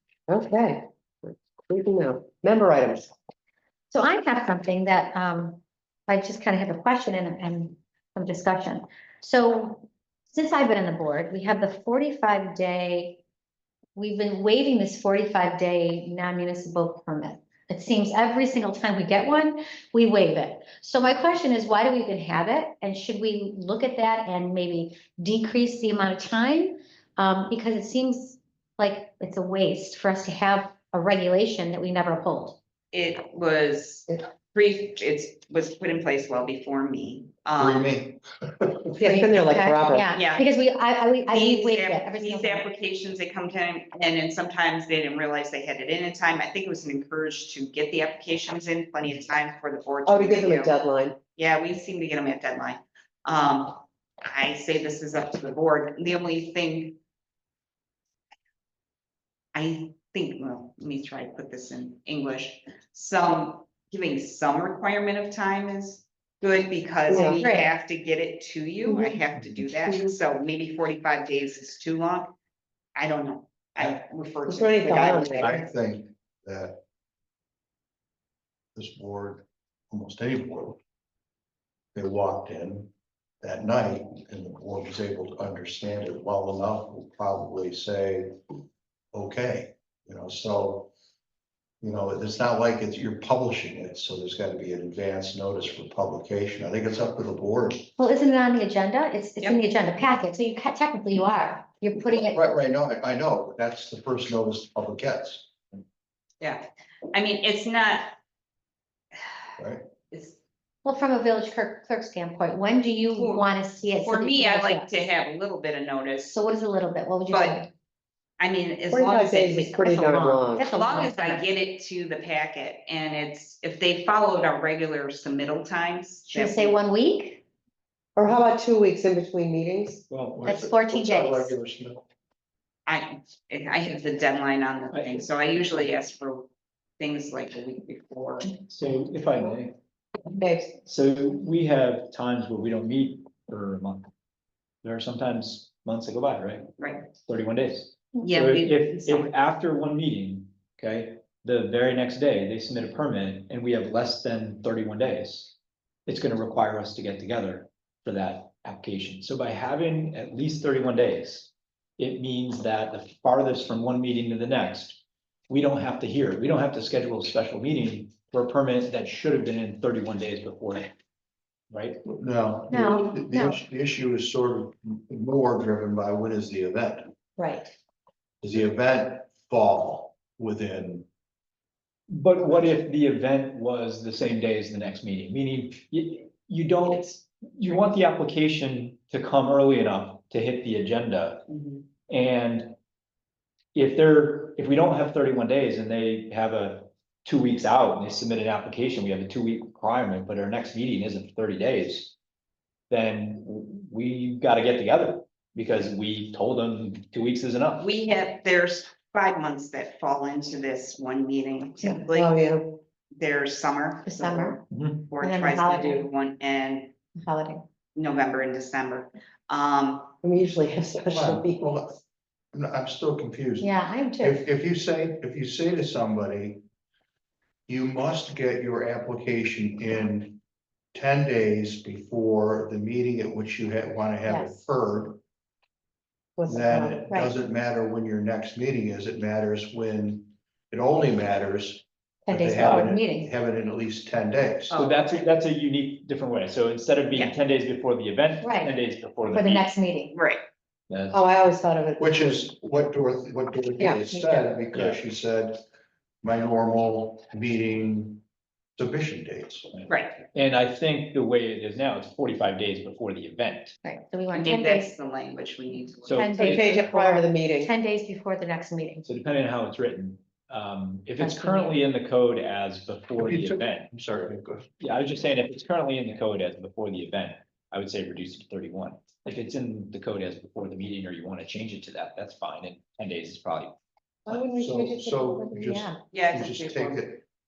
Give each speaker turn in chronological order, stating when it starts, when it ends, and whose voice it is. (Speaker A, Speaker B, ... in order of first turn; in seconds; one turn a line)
Speaker A: 0.3-3.1
Speaker B: 3.9-13.2
Speaker B: 14.0-32.6
Speaker C: 32.9-37.9
Speaker D: 37.6-39.0
Speaker A: 39.0-40.1
Speaker B: 39.0-42.6
Speaker C: 40.1-40.5
Speaker C: 41.3-50.7
Speaker A: 50.0-51.2
Speaker C: 51.4-57.0
Speaker C: 59.5-72.3
Speaker A: 67.1-67.4
Speaker B: 67.4-67.7
Speaker A: 68.9-69.2
Speaker C: 73.0-75.7
Speaker A: 74.5-75.4
Speaker D: 75.4-76.8
Speaker D: 78.7-80.8
Speaker D: 81.9-88.4
Speaker D: 89.1-90.9
Speaker D: 91.8-97.9
Speaker B: 98.0-102.6
Speaker D: 102.0-105.5
Speaker C: 106.4-108.2
Speaker D: 109.6-109.8
Speaker C: 110.1-110.4
Speaker B: 110.8-115.1
Speaker C: 113.2-116.4
Speaker B: 116.3-117.7
Speaker C: 117.3-117.6
Speaker C: 118.4-126.8
Speaker A: 118.9-120.6
Speaker B: 119.5-121.5
Speaker B: 126.3-127.4
Speaker A: 128.2-130.0
Speaker E: 130.1-130.5
Speaker D: 130.4-132.1
Speaker B: 130.4-131.6
Speaker C: 132.9-138.5
Speaker E: 134.9-135.2
Speaker E: 138.5-139.7
Speaker A: 140.4-140.7
Speaker E: 140.9-144.1
Speaker E: 144.8-155.6
Speaker C: 146.8-147.1
Speaker C: 148.2-149.3
Speaker E: 156.1-170.9
Speaker E: 171.7-172.0
Speaker D: 172.1-177.1
Speaker B: 172.7-173.6
Speaker B: 177.4-177.7
Speaker D: 178.4-181.1
Speaker E: 182.1-191.5
Speaker C: 191.5-191.8
Speaker E: 192.1-192.7
Speaker E: 193.7-202.1
Speaker E: 202.9-207.8
Speaker C: 207.8-212.3
Speaker A: 211.8-212.8
Speaker C: 213.1-216.9
Speaker B: 214.1-214.6
Speaker E: 214.7-215.0
Speaker B: 215.2-216.1
Speaker B: 217.2-217.6
Speaker C: 217.9-220.2
Speaker A: 220.2-221.6
Speaker D: 221.1-222.0
Speaker D: 222.5-226.6
Speaker B: 223.6-224.4
Speaker D: 227.7-230.4
Speaker D: 230.9-235.2
Speaker A: 236.4-237.1
Speaker D: 236.5-244.8
Speaker B: 242.3-243.3
Speaker E: 242.6-242.9
Speaker C: 244.7-245.3
Speaker E: 244.7-249.7
Speaker B: 248.4-248.7
Speaker B: 249.3-250.1
Speaker C: 250.1-250.4
Speaker E: 250.9-251.2
Speaker A: 251.1-252.2
Speaker D: 252.0-255.6
Speaker A: 253.8-254.1
Speaker B: 254.1-254.5
Speaker E: 254.7-255.0
Speaker D: 256.2-258.2
Speaker D: 258.8-259.8
Speaker E: 259.7-263.8
Speaker C: 259.9-260.2
Speaker B: 263.8-264.9
Speaker C: 264.3-266.3
Speaker E: 266.1-266.7
Speaker B: 266.1-269.1
Speaker A: 266.4-267.7
Speaker E: 269.1-273.9
Speaker B: 271.2-271.8
Speaker D: 273.2-274.7
Speaker E: 274.8-283.7
Speaker A: 284.2-285.7
Speaker D: 284.3-287.2
Speaker B: 285.7-286.0
Speaker C: 286.1-287.1